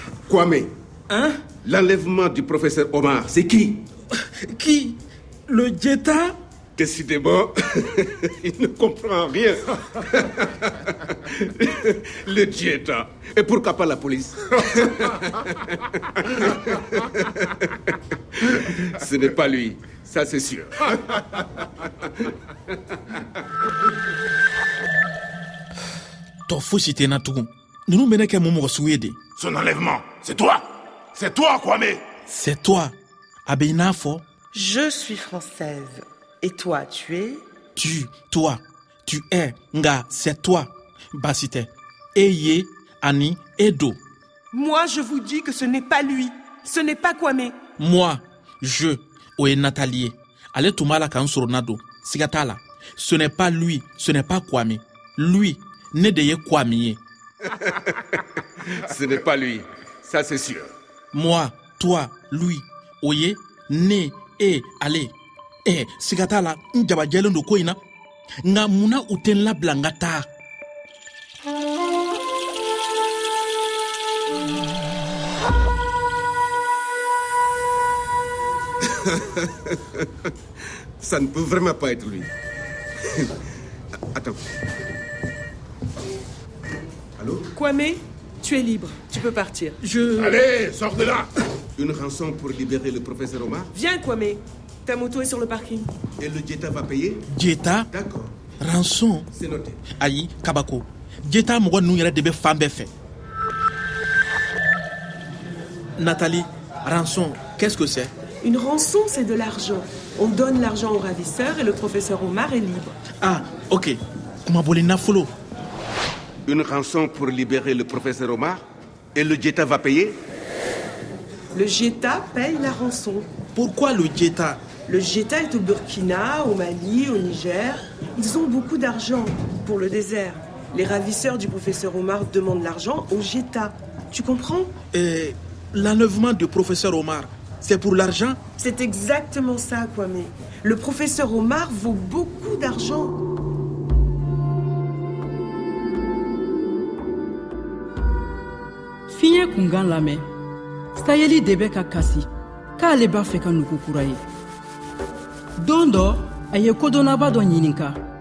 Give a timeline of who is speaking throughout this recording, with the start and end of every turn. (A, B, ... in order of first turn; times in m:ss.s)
0:00.3-0:00.7 A
0:01.1-0:01.4 B
0:01.6-0:03.8 A
0:04.1-0:06.4 B
0:06.8-0:17.7 A
0:18.4-0:21.6 A
0:26.5-0:29.2 B
0:29.4-0:32.0 C
0:32.3-0:32.9 B
0:33.5-0:34.2 B
0:34.5-0:37.4 D
0:37.8-0:44.0 B
0:44.5-0:47.6 D
0:47.8-0:57.0 B
0:57.5-1:00.7 A
1:01.1-1:05.1 B
1:05.6-1:07.8 B
1:08.4-1:10.3 B
1:18.8-1:20.0 A
1:21.0-1:22.3 A
1:24.1-1:24.4 A
1:27.2-1:27.5 A
1:27.5-1:29.8 D
1:29.8-1:30.4 B
1:30.2-1:31.3 C
1:31.8-1:33.7 A
1:33.7-1:35.9 D
1:36.2-1:37.3 A
1:37.3-1:37.9 B
1:37.9-1:38.3 A
1:38.6-1:39.3 B
1:39.3-1:39.8 A
1:40.0-1:42.9 B
1:46.0-1:48.1 B
1:48.4-1:53.0 D
1:53.2-1:55.3 B
1:56.4-1:58.6 A
1:59.1-2:00.2 A
2:01.5-2:03.3 D
2:03.5-2:04.6 B
2:04.8-2:14.7 D
2:14.9-2:18.4 B
2:18.6-2:23.2 D
2:29.1-2:30.2 E
2:30.9-2:32.2 E
2:32.8-2:34.2 E
2:35.6-2:38.0 E